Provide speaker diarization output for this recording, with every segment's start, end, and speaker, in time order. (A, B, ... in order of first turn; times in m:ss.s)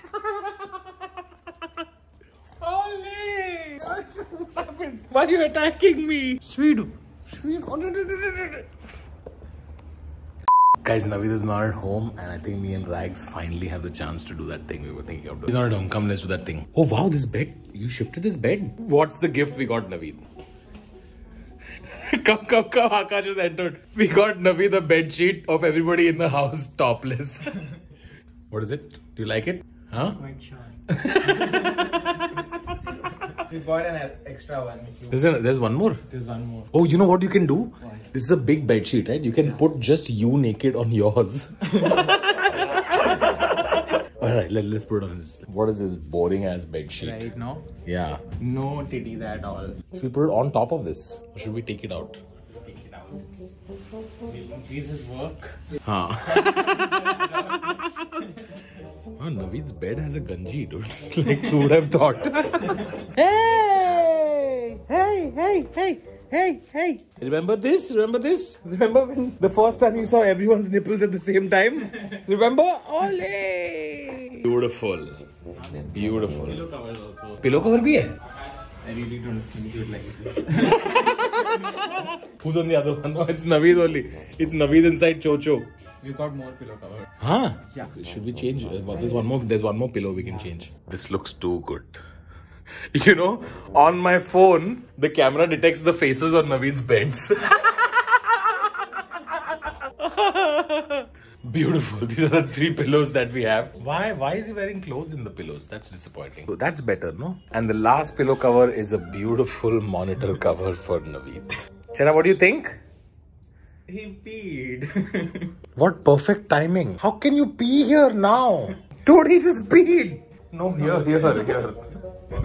0:02.6-0:08.6 A
0:10.8-0:20.2 A
0:21.8-0:27.5 A
0:28.5-0:30.2 A
0:30.2-0:30.7 B
0:30.9-0:32.4 A
0:33.5-0:35.2 B
0:35.1-0:36.0 A
0:36.1-0:36.7 B
0:36.7-0:47.3 A
0:47.0-0:47.6 B
0:47.8-0:48.2 A
0:48.3-0:49.8 B
0:49.9-0:52.2 A
0:52.6-0:53.2 B
0:54.3-0:55.5 B
0:55.8-0:58.0 A
0:59.2-1:15.2 A
1:15.7-1:16.7 A
1:16.4-1:17.4 B
1:17.4-1:18.1 A
1:18.8-1:20.8 B
1:20.8-1:25.7 A
1:26.0-1:27.1 B
1:27.2-1:32.0 A
1:32.9-1:38.4 A
1:40.0-1:52.8 A
1:53.9-1:55.5 B
1:55.7-2:01.9 A